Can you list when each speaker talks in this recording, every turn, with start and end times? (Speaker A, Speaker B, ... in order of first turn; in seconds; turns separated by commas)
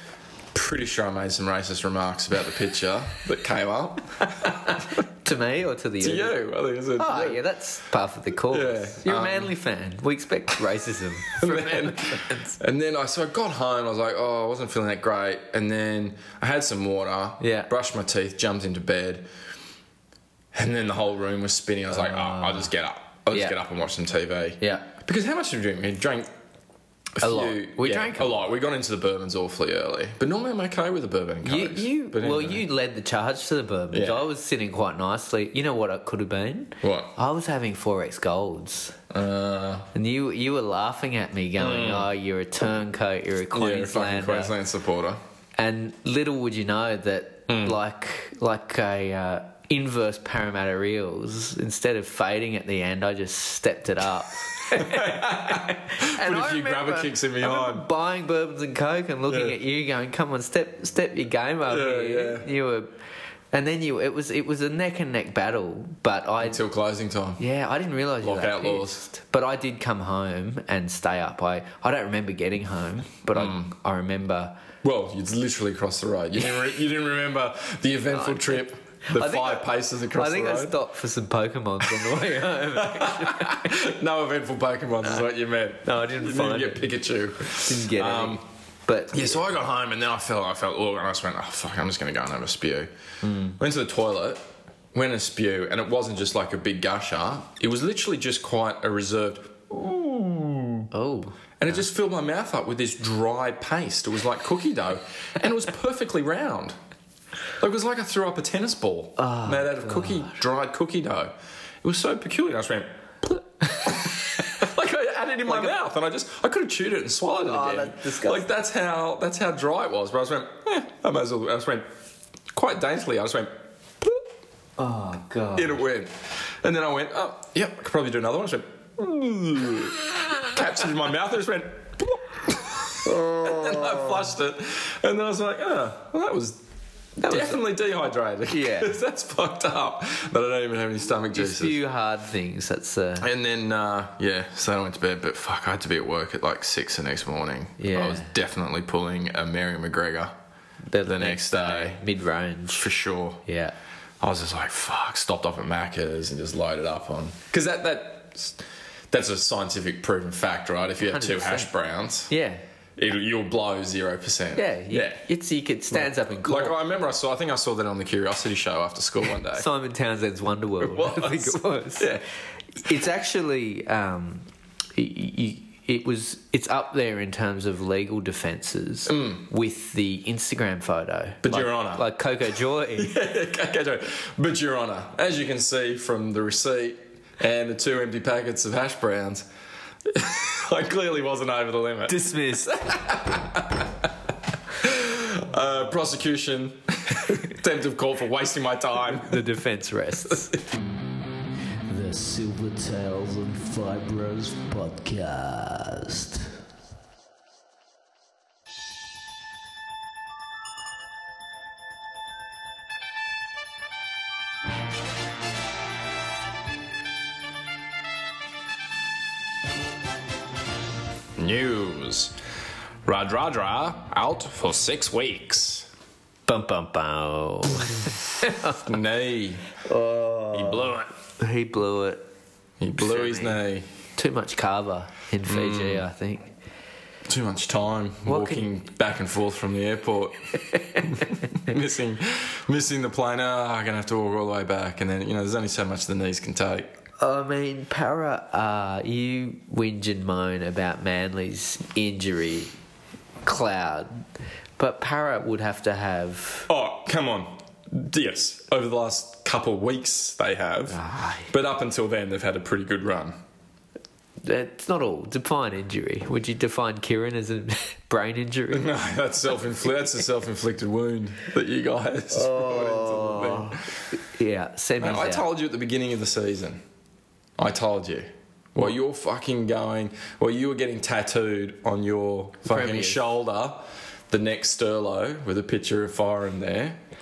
Speaker A: 0.5-4.8, Speaker B: 4.4-6.4, Speaker A: 6.0-7.4, Speaker B: 7.0-12.5, Speaker A: 8.5-9.5, Speaker A: 11.3-19.3, Speaker B: 17.4-17.7, Speaker A: 20.5-26.3, Speaker B: 21.9-22.7, Speaker B: 23.3-23.6, Speaker B: 24.6-24.9, Speaker A: 27.2-32.6, Speaker B: 27.2-28.4, Speaker B: 31.4-39.0, Speaker A: 33.9-34.3, Speaker A: 36.8-37.1, Speaker A: 39.1-39.9, Speaker B: 39.9-44.5, Speaker A: 41.6-42.1, Speaker A: 43.5-45.2, Speaker B: 45.5-62.9, Speaker A: 47.5-47.8, Speaker A: 54.7-57.9, Speaker A: 59.3-59.5, Speaker A: 61.7-62.5, Speaker B: 63.5-66.6, Speaker A: 66.4-67.4, Speaker B: 67.4-74.6, Speaker A: 68.2-69.0, Speaker A: 73.3-73.7, Speaker A: 74.8-80.8, Speaker B: 78.1-83.8, Speaker A: 81.8-82.2, Speaker A: 82.7-88.4, Speaker B: 85.8-86.9, Speaker B: 87.5-89.4, Speaker A: 89.1-92.9, Speaker B: 93.2-93.6, Speaker A: 93.6-100.9, Speaker B: 100.9-101.4, Speaker A: 101.6-106.8, Speaker A: 107.6-112.9, Speaker B: 109.2-110.4, Speaker A: 113.8-121.9, Speaker B: 115.5-115.8, Speaker B: 117.5-118.5, Speaker A: 122.5-124.2, Speaker B: 124.8-125.8, Speaker A: 125.5-136.6, Speaker B: 133.1-134.0, Speaker B: 137.2-137.6, Speaker A: 137.2-141.8, Speaker B: 138.5-139.0, Speaker B: 141.3-143.3, Speaker A: 143.2-150.3, Speaker B: 147.8-148.3, Speaker B: 150.9-152.8, Speaker A: 151.0-152.0, Speaker A: 152.7-153.4, Speaker B: 153.4-153.7, Speaker A: 154.2-158.6, Speaker A: 159.1-162.3, Speaker B: 161.0-161.7, Speaker B: 162.3-162.6, Speaker A: 163.0-165.2, Speaker B: 164.5-166.8, Speaker A: 165.9-169.7, Speaker B: 169.5-172.1, Speaker A: 170.8-172.2, Speaker B: 172.8-183.1, Speaker A: 179.1-179.4, Speaker A: 181.4-182.0, Speaker A: 183.0-189.4, Speaker A: 190.1-192.3, Speaker B: 192.1-193.2, Speaker A: 193.1-193.8, Speaker A: 194.8-199.4, Speaker B: 199.1-200.5, Speaker C: 201.9-206.5, Speaker A: 221.4-222.3, Speaker A: 223.0-225.9, Speaker B: 226.5-228.8, Speaker A: 228.8-229.6, Speaker B: 229.9-232.2, Speaker A: 230.5-231.1, Speaker A: 232.8-233.8, Speaker B: 232.9-233.6, Speaker B: 234.2-236.5, Speaker A: 235.4-236.0, Speaker A: 237.3-240.3, Speaker B: 238.2-238.7, Speaker B: 240.7-241.2, Speaker A: 241.0-247.0, Speaker B: 247.2-252.7, Speaker B: 253.4-254.2, Speaker B: 254.8-256.7, Speaker A: 256.7-261.0, Speaker B: 260.9-261.5, Speaker A: 261.5-263.4, Speaker B: 264.4-268.9, Speaker A: 268.7-273.8, Speaker B: 272.3-275.4, Speaker A: 275.0-276.8, Speaker A: 277.6-287.0, Speaker B: 282.6-283.2